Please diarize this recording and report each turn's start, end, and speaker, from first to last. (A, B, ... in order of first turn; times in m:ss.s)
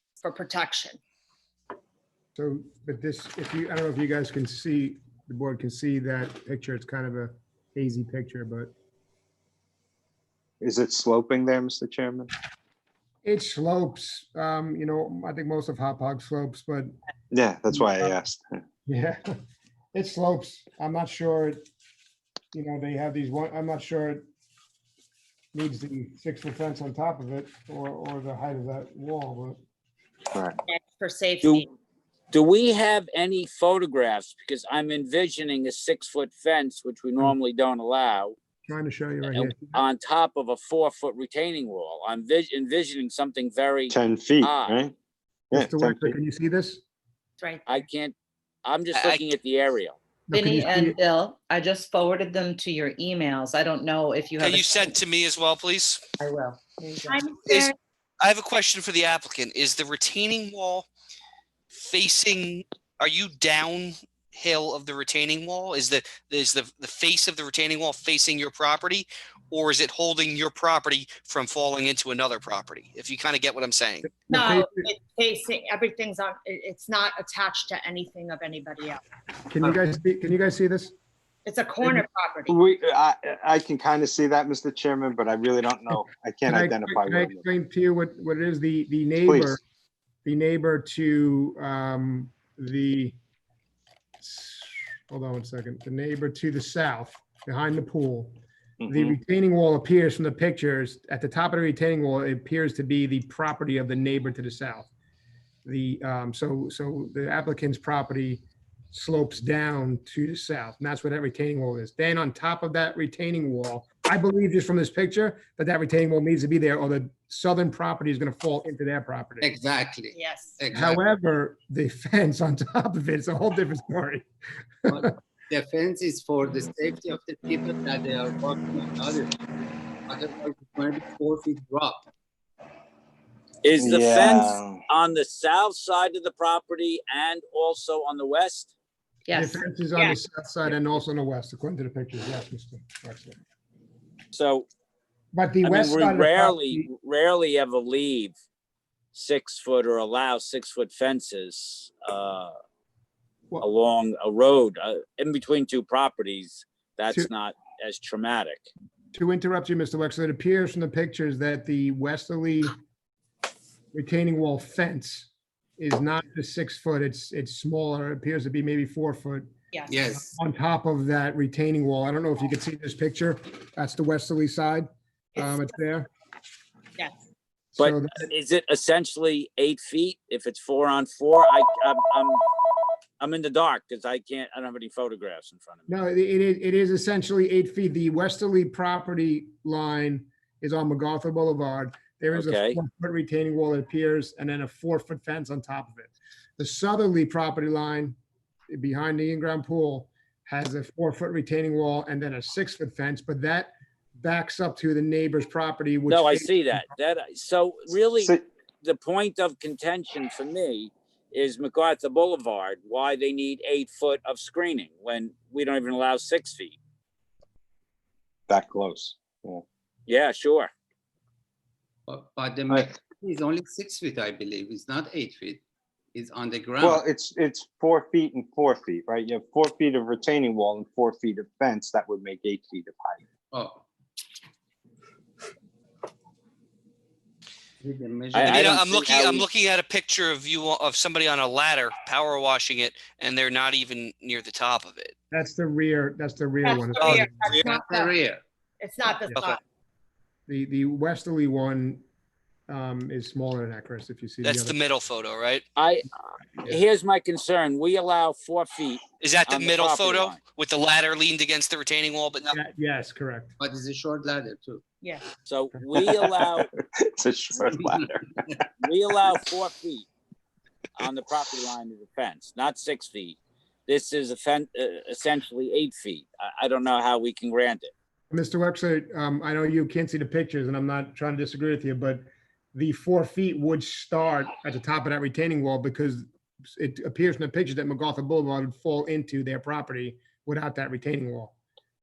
0:00.2-0:01.0 A
0:02.4-0:08.7 B
0:10.6-0:12.3 C
0:13.2-0:16.9 B
0:17.3-0:18.5 C
0:17.7-0:18.1 B
0:18.8-0:19.4 B
0:19.9-0:21.6 B
0:22.5-0:24.2 B
0:25.5-0:29.6 B
0:30.7-0:31.7 A
0:32.3-0:38.3 D
0:38.6-0:39.8 B
0:39.3-0:44.8 D
0:43.9-0:44.9 C
0:45.5-0:46.1 C
0:45.5-0:46.8 B
0:47.4-0:47.8 A
0:47.6-0:48.1 D
0:48.6-0:50.0 D
0:48.9-0:49.2 E
0:50.3-0:51.0 B
0:50.3-0:54.9 F
0:54.4-0:56.0 E
0:56.2-0:57.2 F
0:57.1-0:57.7 A
0:57.4-1:00.9 E
1:01.7-1:14.1 E
1:14.3-1:14.9 B
1:14.3-1:19.0 A
1:19.5-1:20.9 B
1:21.4-1:22.6 A
1:22.5-1:27.4 C
1:26.5-1:29.6 B
1:29.2-1:29.6 C
1:30.2-1:33.1 B
1:34.2-1:44.9 B
1:38.8-1:39.1 C
1:45.6-1:59.5 B
1:59.4-2:01.0 G
2:00.1-2:00.6 A
2:00.7-2:04.3 B
2:04.8-2:05.1 B
2:04.9-2:12.1 G
2:13.6-2:18.7 D
2:13.8-2:14.8 C
2:19.2-2:19.6 F
2:19.3-2:23.4 B
2:24.3-2:24.6 D
2:25.3-2:26.9 B
2:25.6-2:28.3 D
2:29.1-2:32.6 D
2:33.6-2:38.6 D
2:39.1-2:42.7 B
2:43.9-2:49.5 B
2:49.7-2:50.0 A
2:49.9-2:50.4 G
2:50.1-2:56.1 B
2:55.4-2:55.7 A
2:57.8-2:58.2 B
2:57.8-3:02.4 D
3:03.2-3:05.9 D
3:05.9-3:18.2 B
3:12.3-3:12.8 D
3:18.7-3:26.9 B
3:26.1-3:36.8 D
3:38.5-3:39.6 C
3:40.1-3:40.7 D
3:42.1-3:45.6 G
3:46.1-3:47.0 G
3:46.8-3:53.2 C
3:53.5-3:53.8 G
3:57.8-3:58.4 G
3:58.3-3:59.5 D
3:58.4-4:05.1 E
4:05.3-4:07.6 B
4:06.6-4:08.2 A
4:07.5-4:08.4 G
4:08.8-4:09.6 A
4:10.5-4:12.0 B
4:12.7-4:14.7 B
4:14.4-4:15.6 E
4:15.8-4:20.4 D
4:19.2-4:22.5 E
4:22.5-4:23.5 B
4:23.6-4:24.8 G
4:25.0-4:25.3 A
4:25.4-4:26.7 D
4:26.3-4:28.2 C
4:28.8-4:30.1 D
4:31.0-4:37.9 D
4:38.3-4:46.2 B
4:46.7-4:51.5 B